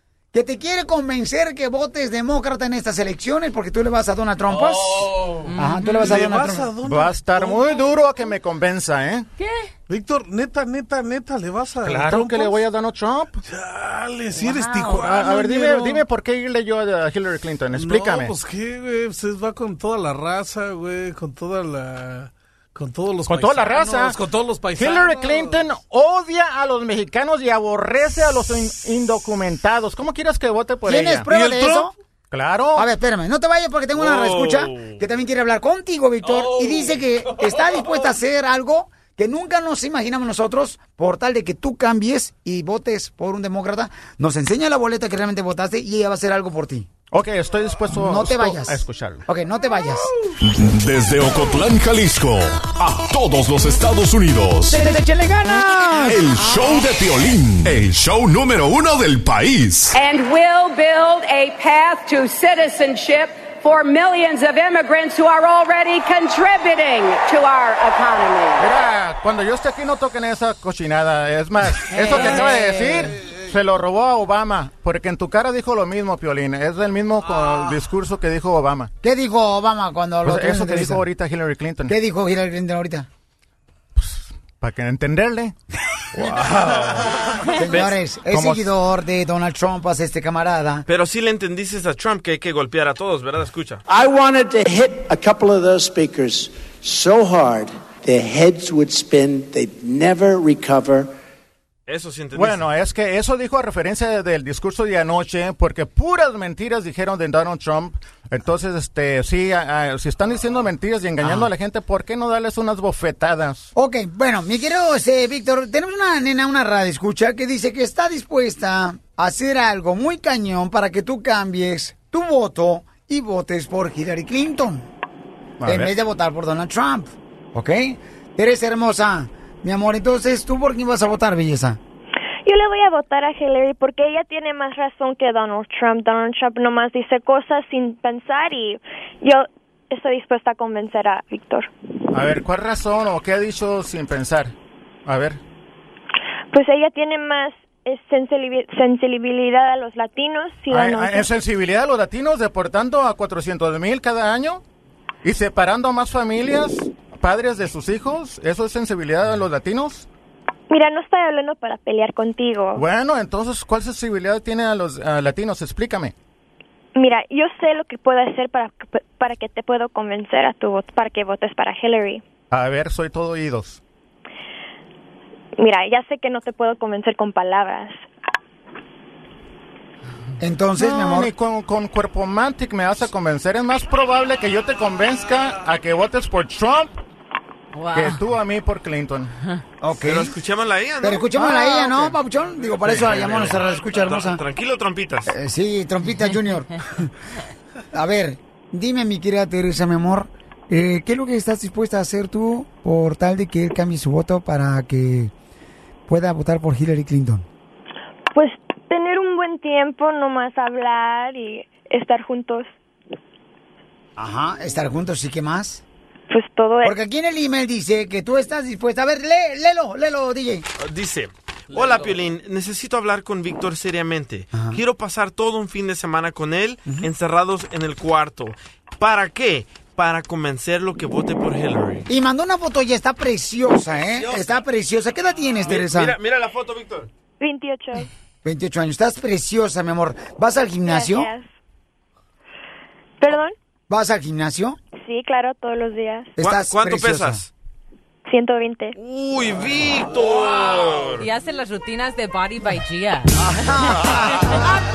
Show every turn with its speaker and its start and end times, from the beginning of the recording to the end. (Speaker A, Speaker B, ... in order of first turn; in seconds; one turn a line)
Speaker A: 0.3-6.7
Speaker B: 4.5-5.1
Speaker C: 5.5-5.9
Speaker B: 5.8-7.8
Speaker D: 6.8-9.3
Speaker C: 9.4-9.7
Speaker B: 9.9-12.5
Speaker D: 11.8-13.4
Speaker B: 13.4-16.0
Speaker C: 14.4-15.1
Speaker D: 14.9-18.3
Speaker B: 17.7-25.8
Speaker D: 23.3-24.2
Speaker D: 24.8-31.3
Speaker A: 30.9-31.9
Speaker B: 31.0-31.9
Speaker D: 32.3-32.9
Speaker A: 32.8-46.9
Speaker E: 34.0-35.0
Speaker D: 47.1-49.2
Speaker A: 47.9-50.1
Speaker F: 50.4-54.9
Speaker A: 54.7-56.5
Speaker F: 55.8-59.9
Speaker G: 59.9-68.7
Speaker D: 68.6-78.9
Speaker A: 71.9-73.1
Speaker B: 73.1-73.4
Speaker A: 79.0-81.0
Speaker D: 80.2-81.9
Speaker A: 81.9-83.1
Speaker D: 83.9-85.5
Speaker A: 87.6-90.8
Speaker D: 88.3-88.7
Speaker E: 90.9-93.8
Speaker H: 93.9-101.1
Speaker E: 101.9-102.6
Speaker D: 102.3-113.7
Speaker A: 113.7-124.9
Speaker D: 125.6-125.9
Speaker A: 125.6-131.8
Speaker I: 132.4-141.7
Speaker D: 142.1-144.5
Speaker D: 145.1-145.4
Speaker I: 146.5-151.3
Speaker D: 150.7-154.6
Speaker D: 155.2-160.1
Speaker I: 160.7-162.8
Speaker D: 162.7-166.1
Speaker I: 166.9-172.2
Speaker D: 172.5-173.8
Speaker I: 175.6-178.0
Speaker A: 180.4-181.3
Speaker D: 180.8-186.9
Speaker C: 187.7-188.2
Speaker D: 187.9-189.3
Speaker A: 189.8-190.3
Speaker E: 190.0-191.8
Speaker A: 191.0-194.4
Speaker E: 192.8-195.3
Speaker A: 195.3-197.1
Speaker A: 197.9-205.3
Speaker A: 206.1-207.4
Speaker I: 208.3-212.7
Speaker A: 214.2-215.8
Speaker I: 216.3-216.9
Speaker A: 216.8-220.6
Speaker E: 220.8-232.1
Speaker B: 221.8-222.1
Speaker A: 224.5-224.8
Speaker A: 232.1-236.2
Speaker E: 235.7-237.1
Speaker I: 237.4-238.1
Speaker A: 238.4-241.3
Speaker I: 240.8-241.5
Speaker I: 243.2-243.5
Speaker A: 243.9-244.8
Speaker I: 245.0-246.3
Speaker A: 246.3-247.4
Speaker E: 246.4-247.5
Speaker I: 248.2-248.9
Speaker E: 248.9-251.2
Speaker C: 251.2-253.3
Speaker A: 253.6-254.5